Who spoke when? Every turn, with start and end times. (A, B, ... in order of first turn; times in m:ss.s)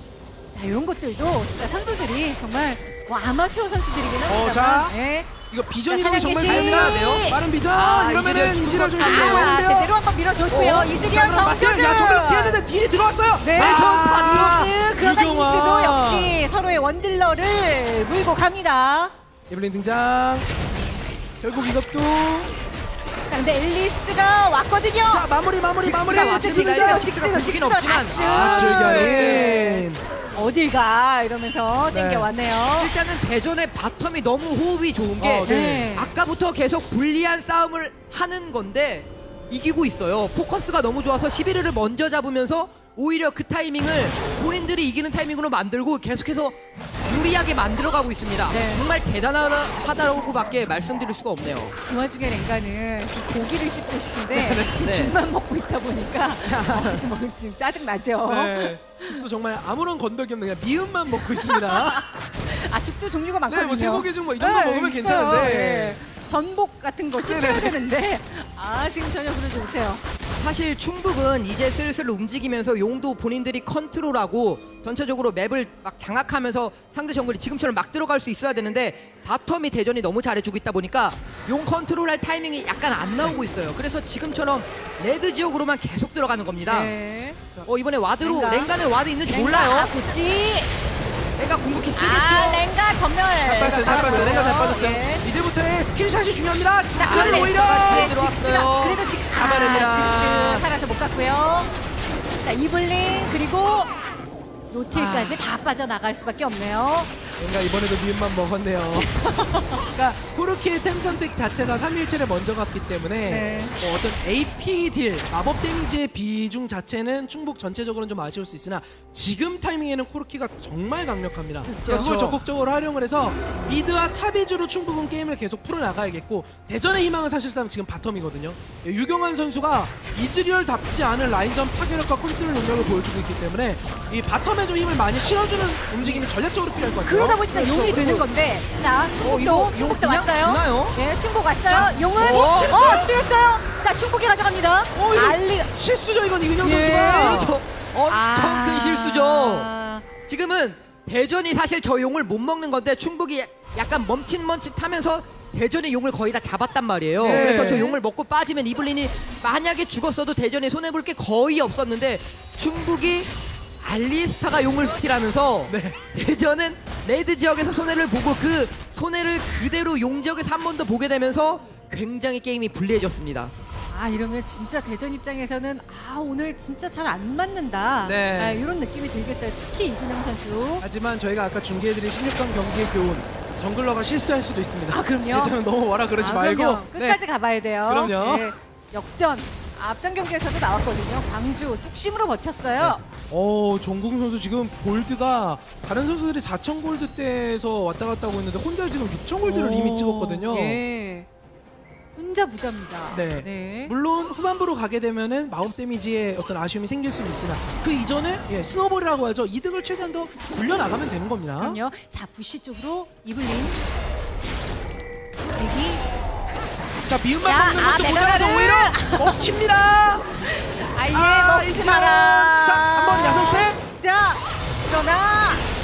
0:00.5-0:05.3 A
0:04.2-0:05.0 B
0:05.5-0:09.9 B
0:05.9-0:07.4 A
0:06.2-0:09.5 C
0:09.0-0:12.6 A
0:10.5-0:16.4 B
0:13.4-0:19.1 A
0:13.5-0:14.7 C
0:19.5-0:20.5 B
0:21.4-0:22.5 B
0:23.3-0:25.3 A
0:25.0-0:27.1 B
0:25.8-0:29.5 C
0:26.1-0:32.9 A
0:28.2-0:30.0 B
0:31.9-0:32.3 B
0:32.8-0:51.7 C
0:35.2-0:35.9 B
0:35.4-0:36.1 A
0:48.5-0:48.8 A
0:51.9-0:59.2 A
0:54.3-0:54.8 B
0:54.8-0:55.1 C
0:56.4-0:57.0 C
0:58.2-1:02.0 B
1:01.3-1:10.0 A
1:03.5-1:06.0 B
1:07.2-1:07.8 B
1:10.4-1:26.9 C
1:26.7-1:27.4 A
1:27.6-1:29.9 C
1:28.2-1:28.7 A
1:29.3-1:30.7 A
1:31.4-1:32.6 C
1:32.0-1:35.2 A
1:33.4-1:38.1 B
1:33.6-1:34.7 C
1:37.0-1:41.7 A
1:37.0-1:39.0 C
1:39.3-1:40.7 B
1:42.4-1:43.9 A
1:44.7-1:47.1 A
1:44.9-1:45.4 B
1:47.4-1:49.1 B
1:49.0-1:49.8 A
1:50.0-2:17.5 B
1:53.3-1:53.7 A
2:01.7-2:02.3 A
2:01.8-2:02.3 C
2:17.0-2:25.7 A
2:17.5-2:18.2 C
2:19.2-2:21.0 C
2:21.7-2:23.2 B
2:22.2-2:22.9 C
2:24.9-2:27.6 B
2:26.6-2:27.5 A
2:27.0-2:29.7 C
2:28.1-2:30.0 A
2:30.3-2:43.3 C
2:37.2-2:37.9 B
2:37.2-2:38.0 A
2:43.8-2:53.5 C
2:45.7-2:46.0 B
2:53.9-3:00.8 A
2:58.0-2:58.7 B
3:00.8-3:07.2 B
3:04.9-3:05.6 A
3:06.2-3:13.0 A
3:07.8-3:08.5 B
3:12.8-3:20.8 B
3:19.4-3:21.3 A
3:22.2-3:23.9 A
3:23.1-3:31.8 B
3:31.6-3:33.8 A
3:35.5-3:36.0 A
3:37.0-3:40.3 B
3:37.4-3:39.4 A
3:40.4-3:45.7 A
3:41.1-3:43.8 B